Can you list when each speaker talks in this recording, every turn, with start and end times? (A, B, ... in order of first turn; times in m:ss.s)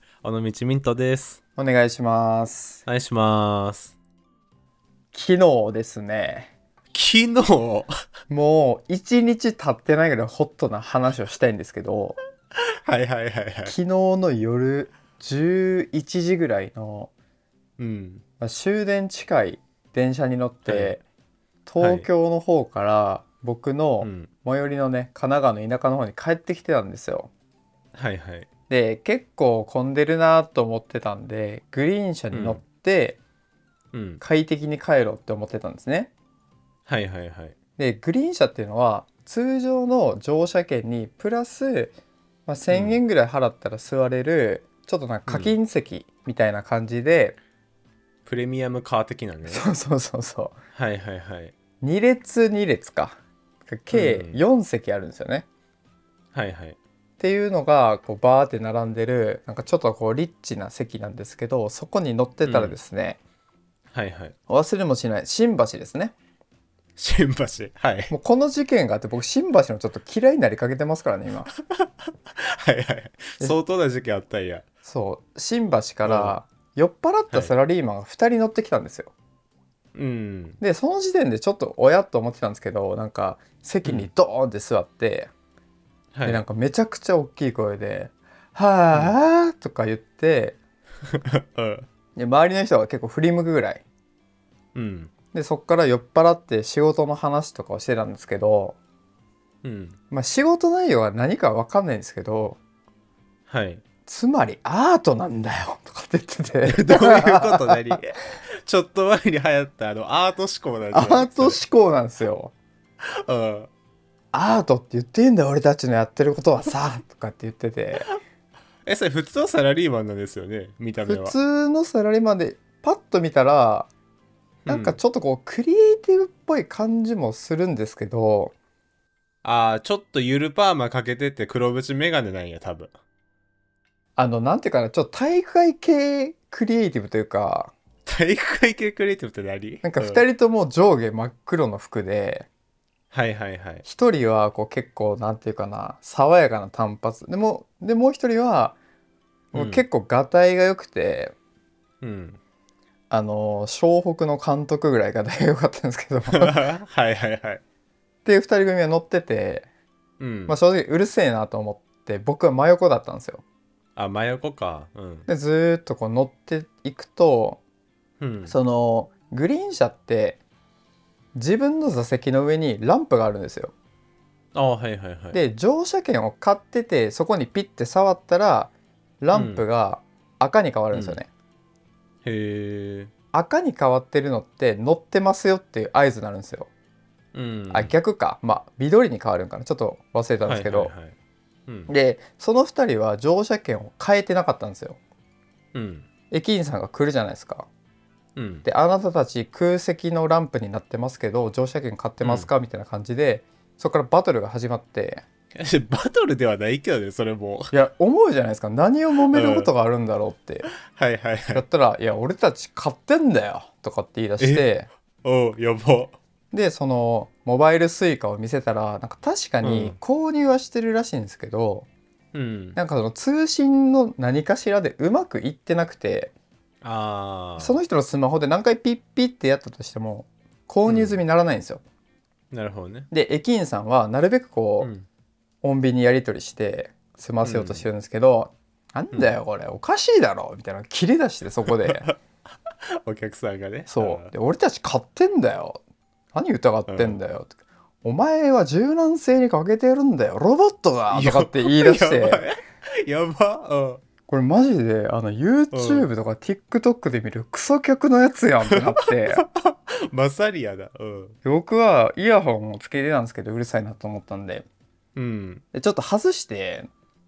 0:00.2-0:01.4 A
0:01.6-0:02.8 B
0:02.8-0:03.9 A
0:05.1-0:06.5 B
0:06.9-0:07.9 A
0:08.3-0:12.2 B
0:12.7-0:13.7 A
0:13.6-0:17.1 B
0:17.8-0:18.2 A
0:18.4-0:21.0 B
0:20.6-0:21.0 A
0:21.6-0:27.3 B
0:21.8-0:22.1 A
0:24.0-0:24.3 A
0:27.9-0:28.5 A
0:28.7-0:33.2 B
0:32.3-0:32.6 A
0:33.9-0:34.2 A
0:34.2-0:36.1 B
0:36.9-0:37.5 A
0:37.8-0:41.9 B
0:42.5-0:47.4 B
0:42.7-0:43.0 A
0:45.3-0:45.5 A
0:48.2-0:49.6 A
0:49.5-0:50.6 B
0:50.7-0:51.5 A
0:51.8-0:55.4 B
0:53.9-0:54.4 A
0:56.3-0:56.8 A
0:57.2-1:03.2 B
1:02.4-1:02.8 A
1:03.9-1:04.3 A
1:04.5-1:06.1 B
1:07.0-1:08.1 A
1:08.1-1:11.5 B
1:11.6-1:14.6 A
1:14.8-1:19.1 B
1:16.0-1:16.4 A
1:19.9-1:20.6 A
1:20.6-1:25.3 B
1:23.8-1:24.1 A
1:26.1-1:26.4 A
1:26.2-1:30.6 B
1:31.1-1:31.8 A
1:32.2-1:33.8 B
1:34.7-1:35.1 A
1:35.3-1:38.8 B
1:39.6-1:40.0 A
1:40.1-1:42.6 B
1:43.5-1:43.8 A
1:44.1-1:48.0 B
1:46.6-1:51.6 A
1:50.9-1:52.5 B
1:53.0-1:53.7 A
1:54.3-1:58.1 B
1:58.8-2:01.3 A
2:01.0-2:03.9 B
2:04.6-2:05.0 A
2:04.7-2:08.5 B
2:09.4-2:12.9 A
2:14.2-2:17.7 B
2:18.0-2:20.2 A
2:19.8-2:22.5 B
2:23.1-2:23.8 A
2:23.8-2:28.8 B
2:29.5-2:29.8 A
2:29.5-2:31.3 B
2:32.0-2:32.4 A
2:33.1-2:36.6 B
2:36.3-2:37.6 A
2:38.2-2:39.7 B
2:40.2-2:40.6 A
2:40.5-2:43.4 B
2:44.0-2:45.3 A
2:45.3-2:47.6 B
2:48.2-2:48.6 A
2:48.5-2:50.4 B
2:51.3-2:53.7 B
2:54.5-2:55.4 A
2:55.3-3:01.3 B
2:59.3-2:59.6 A
3:00.9-3:01.2 A
3:02.2-3:03.1 A
3:03.3-3:06.7 B
3:07.3-3:07.9 A
3:07.7-3:10.9 B
3:10.4-3:11.1 A
3:11.7-3:11.9 A
3:11.9-3:15.0 B
3:15.7-3:16.1 A
3:16.3-3:17.7 B
3:18.4-3:18.6 A
3:18.6-3:25.2 B
3:22.2-3:22.5 A
3:25.5-3:27.7 A
3:27.7-3:30.7 B
3:29.3-3:29.7 A
3:30.8-3:31.6 A
3:31.5-3:34.9 B
3:34.4-3:34.7 A
3:35.2-3:36.1 A
3:36.5-3:41.9 B
3:39.6-3:40.0 A
3:42.3-3:42.8 A
3:42.8-3:46.3 B
3:46.8-3:47.8 A
3:47.6-3:51.8 B
3:50.8-3:51.2 A
3:52.5-3:53.1 A
3:53.1-3:54.9 B
3:54.8-3:55.0 A
3:55.6-4:02.1 B
3:57.4-3:57.8 A
4:01.6-4:02.2 A
4:03.0-4:04.3 A
4:03.9-4:05.8 B
4:06.3-4:12.4 B
4:06.9-4:07.2 A
4:11.1-4:14.0 A
4:14.3-4:19.4 B
4:15.7-4:16.1 A
4:18.7-4:21.4 A
4:21.4-4:24.6 B
4:25.1-4:25.6 A
4:25.7-4:26.9 B